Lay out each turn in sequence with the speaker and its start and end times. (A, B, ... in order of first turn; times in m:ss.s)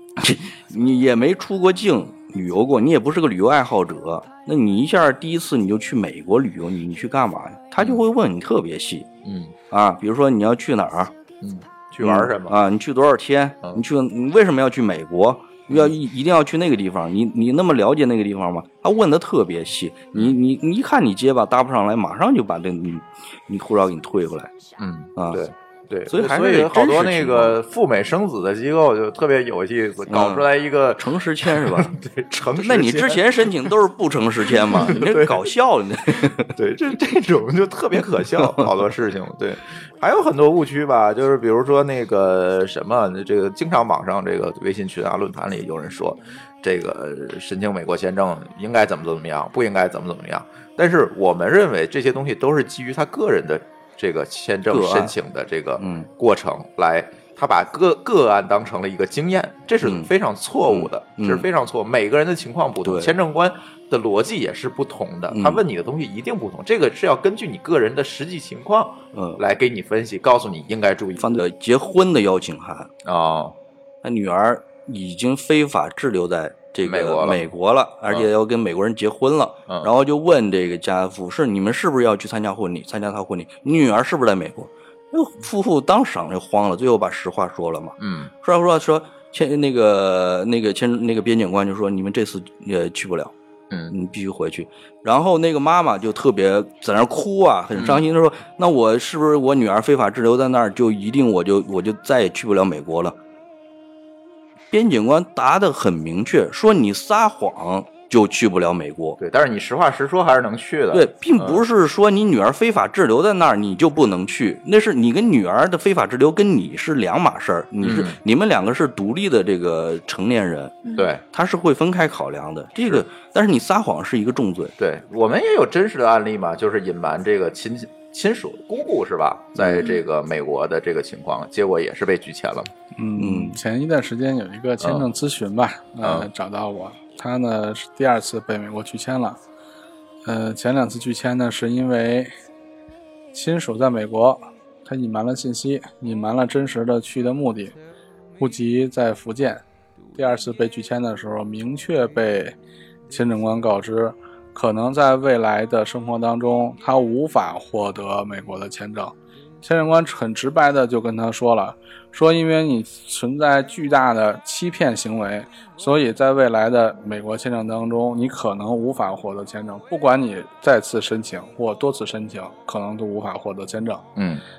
0:00.2-0:09.1 A
0:07.8-0:08.0 B
0:09.2-0:09.5 B
0:09.7-0:11.1 A
0:11.4-0:12.6 B
0:12.0-0:24.6 A
0:15.7-0:16.0 B
0:24.8-0:33.7 B
0:25.2-0:25.4 A
0:26.1-0:27.6 A
0:30.1-0:36.5 A
0:34.6-0:35.6 B
0:36.2-1:11.4 B
0:38.4-0:38.7 A
0:54.7-0:55.1 A
0:55.8-0:56.1 A
0:59.8-1:00.1 A
1:00.7-1:01.5 A
1:02.8-1:03.1 A
1:05.3-1:05.6 A
1:09.1-1:09.4 A
1:11.2-1:12.9 A
1:13.0-1:13.6 B
1:14.0-1:33.3 A
1:16.8-1:17.4 B
1:28.0-1:28.3 B
1:33.7-1:34.0 B
1:33.9-1:43.2 A
1:37.8-1:38.0 B
1:44.7-1:49.2 A
1:49.2-1:51.6 B
1:50.9-2:00.8 A
1:57.8-1:58.2 B
2:01.0-2:01.2 B
2:01.3-2:04.8 A
2:04.8-2:12.7 B
2:09.6-2:09.9 A
2:13.0-2:19.4 C
2:13.2-2:13.6 A
2:14.8-2:15.1 B
2:16.0-2:16.3 B
2:20.3-2:22.3 C
2:23.3-2:27.8 C
2:28.4-2:29.6 C
2:30.2-2:32.6 C
2:33.1-2:54.0 C
2:54.2-2:54.4 B